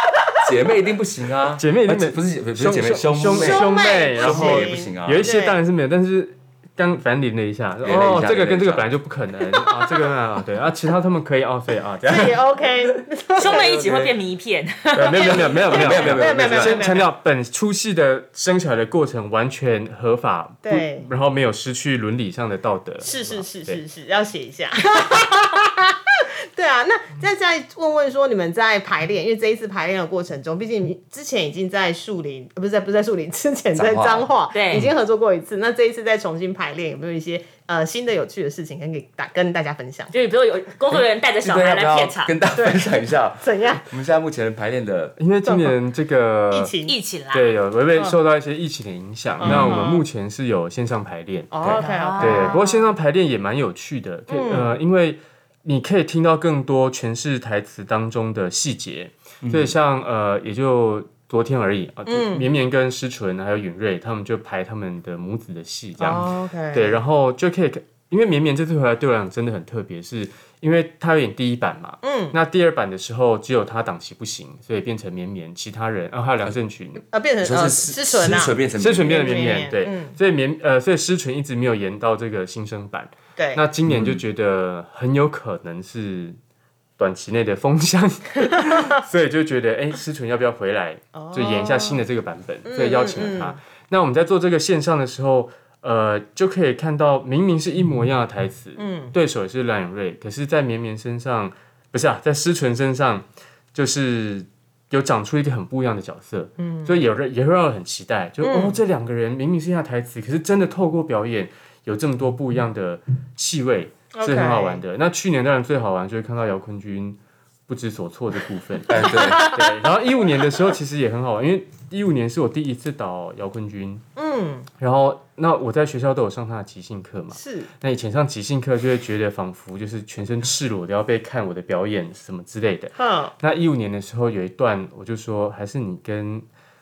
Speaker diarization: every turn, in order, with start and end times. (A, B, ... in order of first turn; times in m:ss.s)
0:00.4-0:05.2 A
0:01.6-0:12.4 B
0:03.2-0:05.6 C
0:07.8-0:08.9 A
0:12.0-0:14.1 C
0:13.4-0:15.6 D
0:14.9-0:23.8 B
0:15.2-0:17.1 C
0:15.7-0:16.8 A
0:20.6-0:21.1 C
0:23.0-0:40.1 C
0:33.7-0:34.3 A
0:34.5-0:34.9 D
0:40.1-0:42.3 D
0:40.9-0:45.2 A
0:42.6-0:43.9 C
0:45.2-0:46.7 B
0:45.5-0:45.8 C
0:46.5-0:47.0 C
0:46.8-0:47.6 D
0:47.3-0:51.5 B
0:49.4-0:50.0 C
0:49.4-0:49.9 A
0:51.5-0:52.9 C
0:51.6-0:51.9 A
0:51.8-0:52.6 D
0:52.2-1:17.0 B
0:54.3-0:54.8 C
0:59.4-0:59.8 A
1:02.1-1:02.5 C
1:06.0-1:07.0 C
1:12.0-1:12.4 C
1:17.0-1:20.2 C
1:17.4-1:19.7 A
1:18.8-1:26.4 B
1:23.4-1:23.6 C
1:23.9-1:24.2 A
1:27.0-2:04.0 B
1:31.1-1:32.0 C
1:32.6-1:33.6 C
1:38.8-1:39.1 C
1:46.6-1:47.1 C
1:48.4-1:48.8 C
1:54.1-1:54.8 C
1:58.9-1:59.6 A
2:04.2-2:04.7 C
2:04.8-2:16.4 B
2:07.3-2:07.7 C
2:13.0-2:13.3 C